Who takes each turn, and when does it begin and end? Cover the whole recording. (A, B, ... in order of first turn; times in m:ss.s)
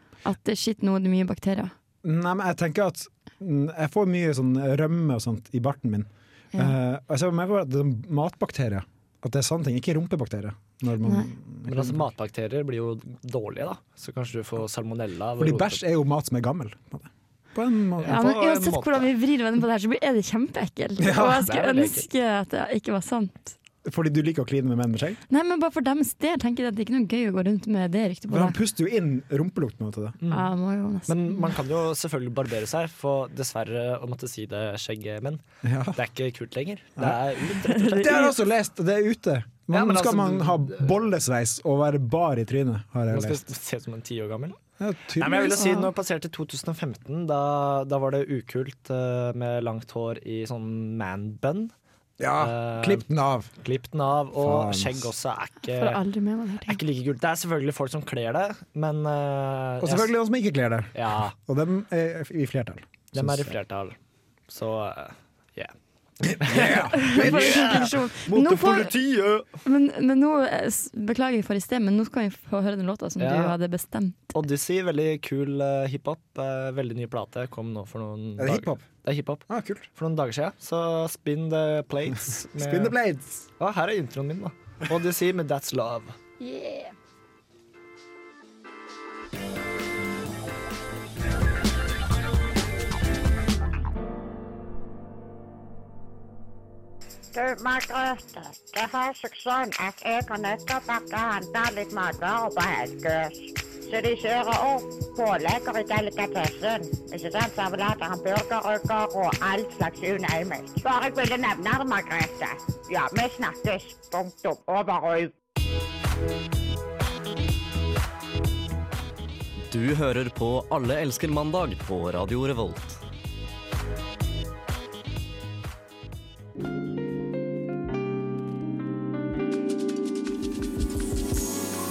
0:00.2-0:01.7 A
0:02.0-0:12.1 B
0:11.7-0:15.8 C
0:15.4-0:18.3 B
0:18.0-0:19.1 C
0:18.1-0:23.6 A
0:21.0-0:21.4 B
0:21.2-0:22.1 C
0:23.8-0:25.2 B
0:25.3-0:28.6 A
0:28.3-0:30.2 B
0:30.2-0:30.5 C
0:30.3-0:31.5 A
0:31.1-0:35.4 C
0:35.6-0:36.0 B
0:35.9-0:38.3 C
0:37.6-0:38.4 A
0:38.0-0:43.4 B
0:39.7-0:41.0 C
0:43.1-0:44.6 C
0:44.8-0:45.7 B
0:45.2-0:51.7 C
0:45.3-0:45.9 A
0:52.2-0:53.5 B
0:52.4-0:53.0 C
0:53.6-0:56.0 C
0:54.4-0:55.1 B
0:55.7-0:56.8 A
0:56.7-1:00.1 C
0:59.8-1:03.6 B
1:00.9-1:01.4 C
1:03.1-1:04.0 C
1:04.5-1:05.7 C
1:06.2-1:07.9 B
1:06.3-1:09.5 C
1:06.9-1:08.9 A
1:09.6-1:14.3 A
1:13.2-1:13.6 C
1:14.3-1:23.0 C
1:18.4-1:18.9 B
1:19.5-1:19.9 B
1:22.6-1:23.4 B
1:23.6-1:26.2 C
1:26.4-1:26.9 A
1:37.3-1:55.3 D
1:59.7-2:03.0 E